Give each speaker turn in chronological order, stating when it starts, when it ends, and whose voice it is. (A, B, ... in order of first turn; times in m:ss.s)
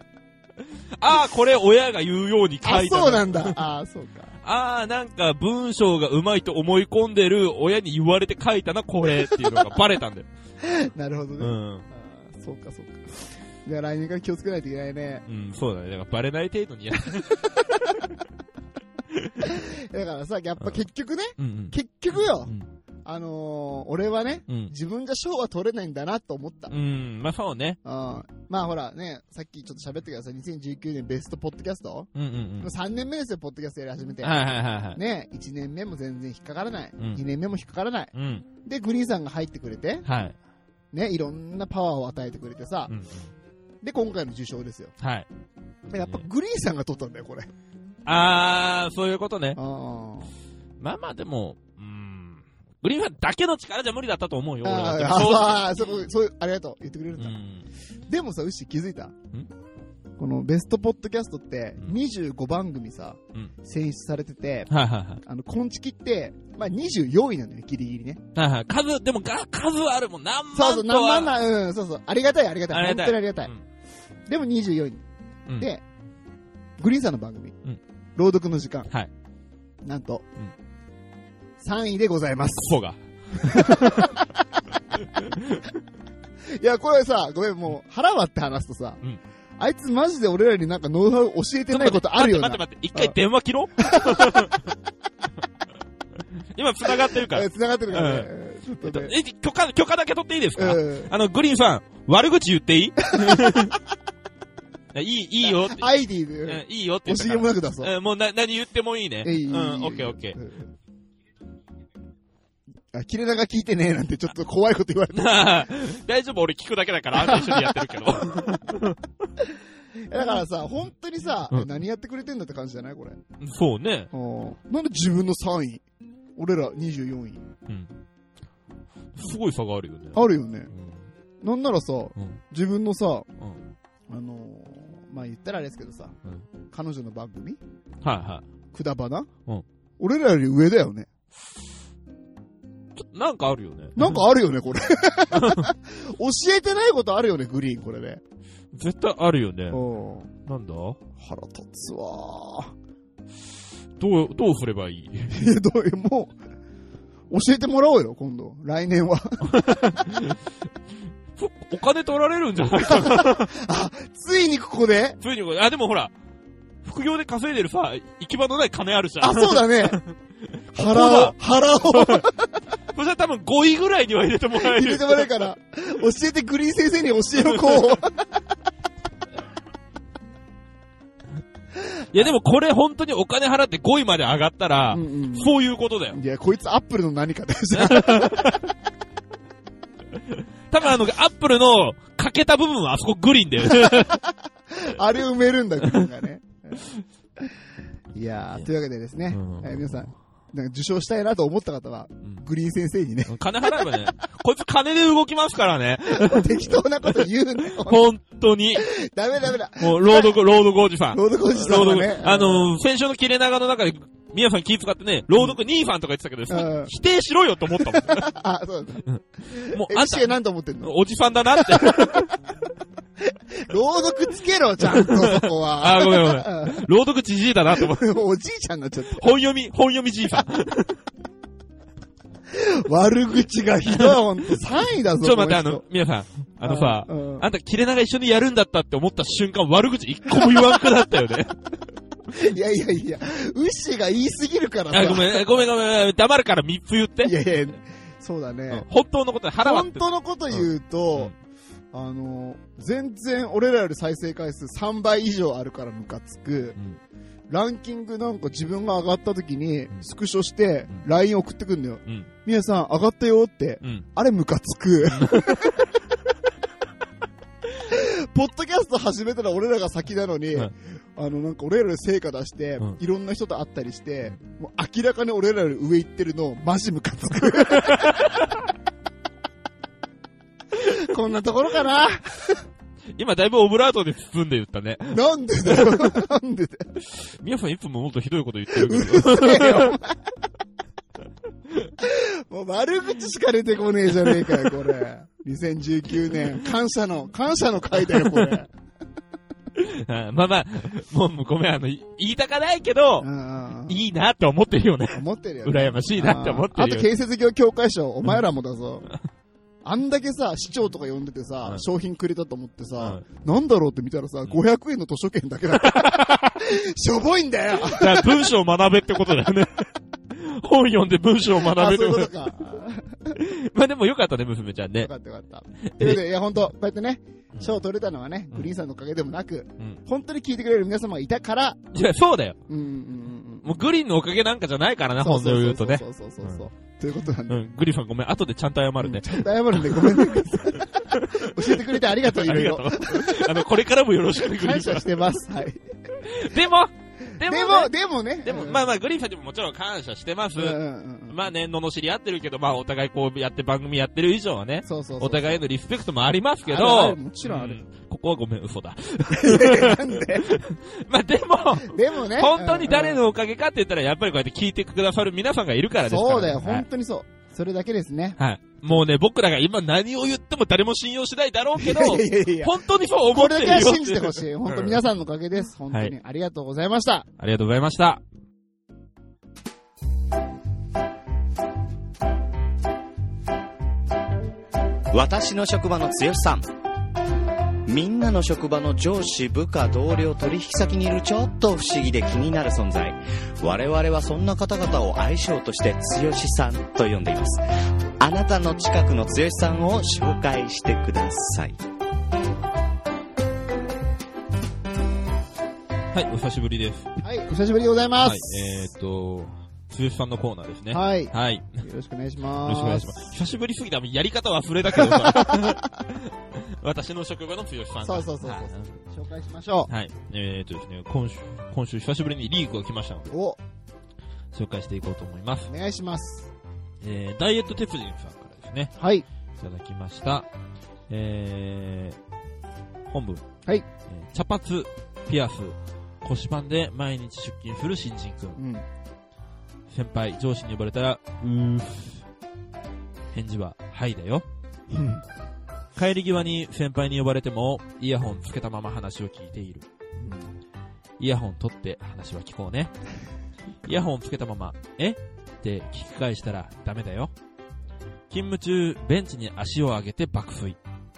0:01.0-0:03.6 A
0:02.6-0:04.3 B
0:04.4-0:10.3 A
0:10.6-0:15.2 B
0:11.4-0:11.8 A
0:15.2-0:18.0 A
0:17.5-0:18.0 B
0:19.4-0:22.5 B
0:21.4-0:22.7 A
0:23.0-0:26.7 B
0:24.5-0:24.7 A
0:26.7-0:27.8 A
0:27.8-0:32.1 B
0:32.1-0:32.7 A
0:32.6-0:38.1 B
0:34.2-0:35.0 A
0:38.1-0:38.4 A
0:38.6-0:40.0 B
0:40.0-0:40.3 A
0:40.9-0:42.9 B
0:42.9-0:43.3 A
0:43.8-0:44.9 B
0:45.0-0:45.3 A
0:45.9-0:47.5 B
0:48.0-0:49.6 A
0:49.6-0:50.3 B
0:50.8-0:56.0 A
0:54.6-0:57.3 B
0:57.2-0:57.6 A
0:58.1-0:59.1 B
1:00.2-1:04.7 B
1:04.7-1:05.2 A
1:05.2-1:08.2 B
1:08.3-1:11.3 A
1:10.5-1:13.5 B
1:12.7-1:13.6 A
1:14.3-1:15.0 B
1:16.8-1:17.6 B
1:18.2-1:18.9 B
1:19.8-1:20.2 B
1:21.6-1:22.8 B
1:22.6-1:24.1 A
1:23.3-1:24.2 B
1:25.1-1:25.7 A
1:26.6-1:29.0 B
1:29.6-1:33.1 B
1:31.7-1:34.7 A
1:33.8-1:34.6 B
1:36.5-1:38.3 A
1:37.0-1:39.1 B
1:38.8-1:43.7 A
1:40.6-1:41.1 B
1:43.1-1:43.7 B
1:44.9-1:45.9 A
1:45.4-1:47.9 B
1:46.4-1:50.4 A
1:49.2-1:50.7 B
1:52.9-1:55.6 B
1:55.1-1:59.0 A
1:57.2-1:58.6 B
2:00.1-2:03.2 B
2:03.4-2:04.1 A
2:04.1-2:05.8 B
2:06.4-2:07.4 B
2:07.7-2:07.9 A
2:09.1-2:11.1 A
2:10.1-2:10.7 B
2:11.4-2:13.3 B
2:14.1-2:16.2 B
2:16.7-2:17.6 B
2:18.0-2:18.4 A
2:18.7-2:19.3 B
2:20.0-2:21.1 B
2:23.0-2:24.2 A
2:24.0-2:28.2 B
2:25.3-2:25.7 A
2:28.7-2:29.8 A
2:29.7-2:30.3 B
2:30.4-2:31.0 A
2:31.2-2:32.7 B
2:34.0-2:35.4 A
2:35.3-2:36.3 B
2:37.3-2:40.0 B
2:39.5-2:40.4 A
2:41.4-2:43.5 A
2:42.8-2:45.2 B
2:45.2-2:46.1 A
2:46.8-2:50.1 A
2:49.2-2:50.0 B
2:50.7-2:51.4 A
2:50.7-2:52.5 B
2:51.9-2:52.3 A
2:52.9-2:55.3 A
2:54.5-2:58.3 B
2:57.4-2:58.0 A
3:02.1-3:06.2 A
3:04.9-3:05.5 B
3:06.1-3:08.6 B
3:07.7-3:08.7 A
3:10.3-3:14.2 A
3:13.6-3:16.9 B
3:18.1-3:24.0 B
3:19.3-3:20.1 A
3:23.3-3:28.8 A
3:26.1-3:28.1 B
3:28.7-3:30.4 B
3:29.8-3:38.3 A
3:31.1-3:32.7 B
3:36.5-3:36.9 B
3:37.8-3:40.9 B
3:39.1-3:42.4 A
3:41.5-3:42.3 B
3:43.3-3:46.8 B
3:44.8-3:48.1 A
3:47.7-3:49.3 B
3:49.1-3:51.0 A
3:52.5-3:55.8 B
3:53.9-3:54.2 A
3:55.2-4:01.6 A
3:56.6-3:57.4 B
4:00.3-4:00.8 B
4:02.3-4:05.6 B
4:04.9-4:07.3 A
4:07.2-4:08.8 B
4:08.7-4:11.3 A
4:09.6-4:11.3 B
4:11.9-4:16.8 B
4:17.5-4:25.8 B
4:25.1-4:25.9 A
4:27.8-4:38.3 B
4:37.8-4:38.4 A
4:40.8-4:42.6 B
4:43.2-4:46.2 A
4:45.1-4:46.9 B
4:47.4-4:50.0 A
4:48.7-4:50.2 B
4:52.0-4:58.7 B
4:54.2-4:54.7 A
4:58.1-4:58.5 A
4:59.7-5:03.3 A
5:03.2-5:04.0 B
5:03.9-5:07.1 A
5:05.1-5:09.1 B
5:09.8-5:18.4 B
5:15.8-5:16.6 A
5:17.8-5:22.4 A
5:21.6-5:23.4 B
5:23.3-5:25.1 A
5:25.0-5:31.9 B
5:25.8-5:26.2 A
5:31.9-5:32.6 A
5:32.7-5:33.8 B
5:33.6-5:36.6 A
5:35.2-5:37.6 B
5:37.5-5:45.2 A
5:39.0-5:43.6 B
5:44.4-5:45.8 B
5:46.2-5:47.9 A
5:47.4-5:48.9 B
5:48.4-6:06.8 A
5:50.6-5:51.4 B
5:54.8-5:55.6 B
5:56.6-5:57.8 B
5:59.3-6:00.5 B
6:01.8-6:03.2 B
6:06.1-6:08.4 B
6:08.4-6:15.0 A
6:11.8-6:12.8 B
6:13.3-6:17.3 B
6:17.4-6:18.2 A
6:25.1-6:26.7 C
6:27.8-6:37.6 C
6:38.2-6:41.8 C
6:46.1-6:47.1 A
6:47.2-6:48.8 B
6:48.2-6:51.8 A
6:50.9-6:53.3 B
6:52.6-6:58.9 A
6:54.9-6:55.9 B
6:58.0-6:59.9 B
6:59.9-7:03.3 A
7:03.3-7:03.6 B
7:04.5-7:05.7 A
7:05.7-7:06.5 B
7:07.0-7:08.9 A
7:09.0-7:09.2 B
7:09.6-7:10.5 A
7:11.1-7:12.2 A
7:13.1-7:13.4 A
7:14.1-7:18.6 A
7:18.6-7:18.8 B
7:19.9-7:22.2 A
7:23.3-7:24.4 A
7:24.9-7:25.2 B
7:26.0-7:29.8 A
7:30.2-7:30.5 B
7:31.2-7:32.9 A
7:33.8-7:37.3 A
7:38.3-7:40.8 A